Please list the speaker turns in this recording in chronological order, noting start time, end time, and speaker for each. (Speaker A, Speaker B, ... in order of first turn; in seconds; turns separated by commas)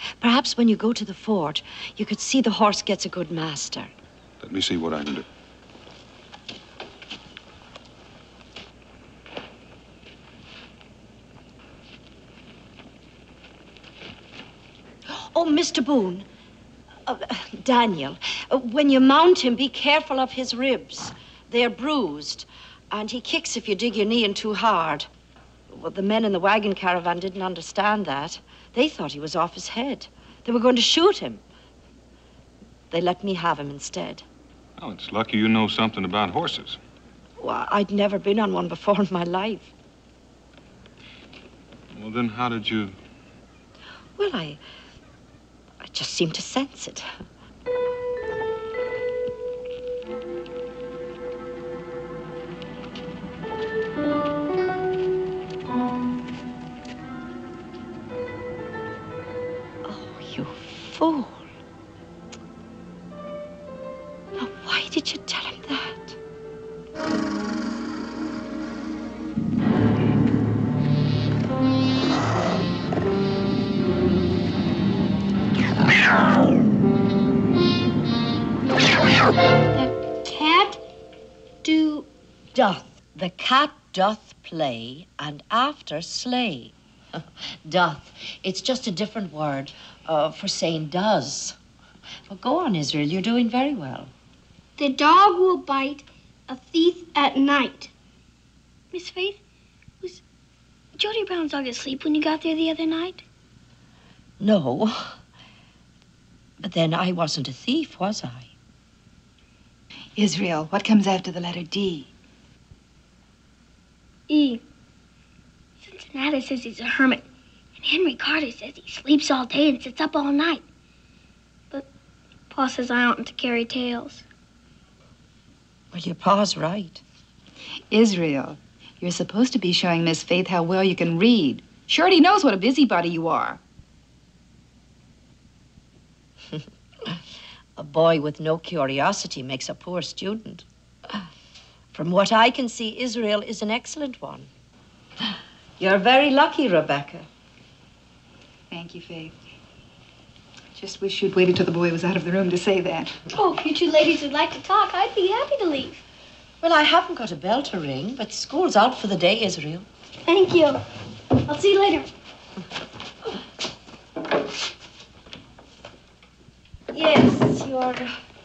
Speaker A: 0.2-3.9, Speaker B: 4.4-5.2, Speaker A: 15.1-16.3, Speaker A: 17.1-25.1, Speaker A: 25.7-31.4, Speaker A: 32.9-34.2, Speaker B: 34.8-36.8, Speaker A: 37.4-39.7, Speaker B: 41.9-42.9, Speaker A: 44.2-44.6, Speaker A: 45.8-47.1, Speaker A: 59.8-61.4, Speaker A: 64.4-66.2, Speaker C: 79.7-80.8, Speaker C: 81.6-82.1, Speaker A: 82.5-91.6, Speaker A: 92.3-94.1, Speaker C: 94.8-97.9, Speaker C: 98.9-99.4, Speaker C: 101.0-103.2, Speaker A: 104.4-105.2, Speaker A: 106.6-108.5, Speaker D: 110.2-112.1, Speaker C: 114.3-114.6, Speaker C: 115.8-117.2, Speaker C: 117.8-120.6, Speaker C: 122.5-124.2, Speaker A: 125.9-127.0, Speaker D: 127.9-133.6, Speaker A: 137.8-141.2, Speaker A: 141.9-144.5, Speaker A: 145.8-147.2, Speaker D: 148.7-149.3, Speaker D: 150.8-153.2, Speaker C: 153.3-156.0, Speaker A: 156.6-159.9, Speaker C: 160.2-160.8, Speaker C: 161.4-162.1, Speaker A: 166.9-168.1